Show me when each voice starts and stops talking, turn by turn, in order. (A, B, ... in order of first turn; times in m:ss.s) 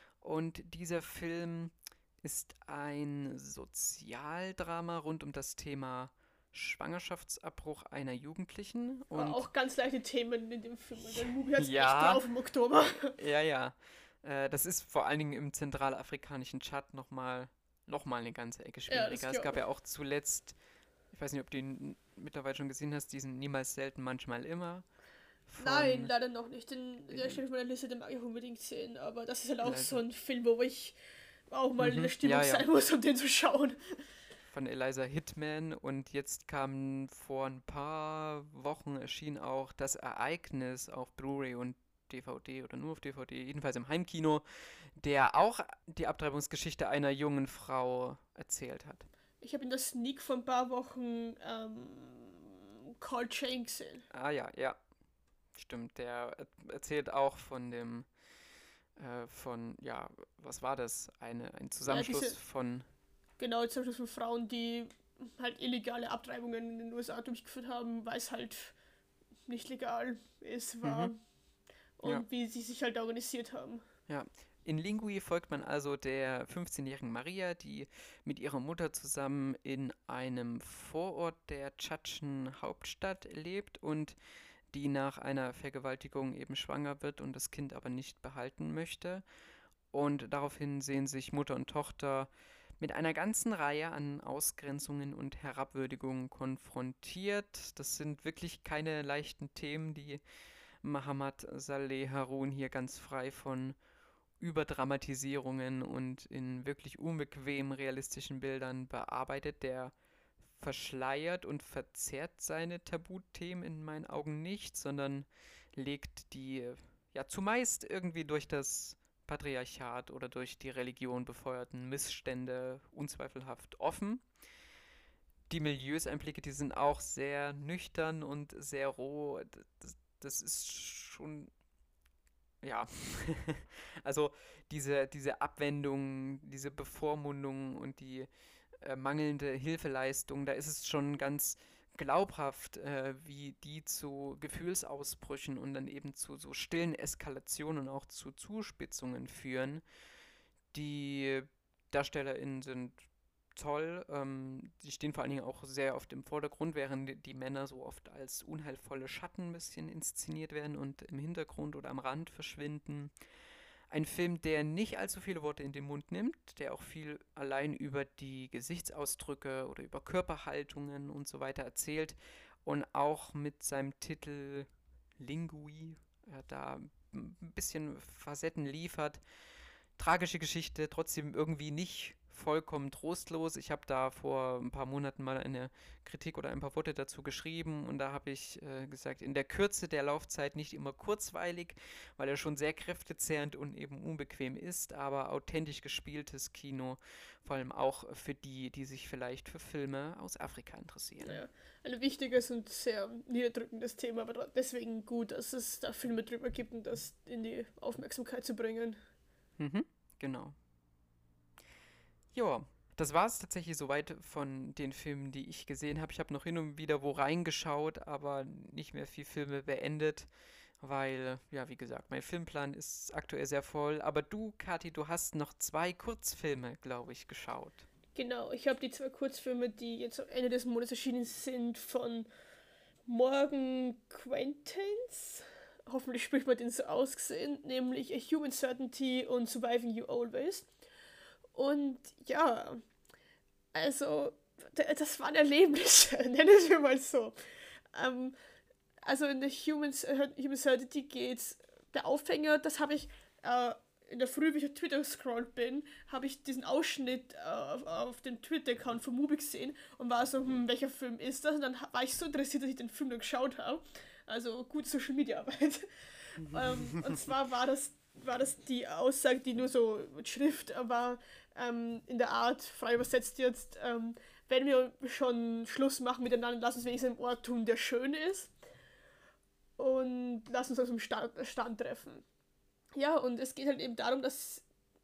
0:00.2-0:09.4 A
0:09.1-0:13.1 B
0:11.1-0:12.2 A
0:13.1-0:20.6 A
0:18.9-0:19.6 B
0:21.1-0:24.8 A
0:25.5-0:26.1 A
0:25.6-0:31.0 B
0:27.1-0:27.4 A
0:29.6-0:30.0 A
0:31.5-0:33.8 B
0:31.8-0:32.7 A
0:34.5-0:49.1 A
0:49.4-0:54.0 B
0:54.1-0:54.8 A
0:55.5-0:58.1 A
0:59.0-1:02.9 A
1:01.9-1:02.4 B
1:03.4-1:08.7 B
1:09.5-1:11.2 B
1:10.8-1:11.1 A
1:12.0-1:13.8 B
1:14.1-1:24.2 A
1:24.7-1:29.2 A
1:29.9-1:40.2 A
1:40.8-1:43.8 A
1:44.4-1:49.9 A
1:50.6-2:04.2 A
2:05.5-2:11.5 A
2:12.6-2:18.3 A
2:18.8-2:29.8 A
2:30.7-2:33.0 A
2:33.5-2:43.1 A
2:43.9-2:59.2 A
3:00.0-3:21.4 A
3:21.2-3:29.0 B
3:29.6-3:30.5 A
3:32.3-3:40.3 A
3:40.8-3:47.8 A
3:48.1-3:52.3 B
3:53.0-4:00.7 B
4:01.5-4:02.8 B
4:03.7-4:07.3 B
4:07.9-4:08.3 B
4:09.0-4:38.5 B
4:26.4-4:27.2 A
4:39.8-4:42.2 B
4:43.0-4:44.6 B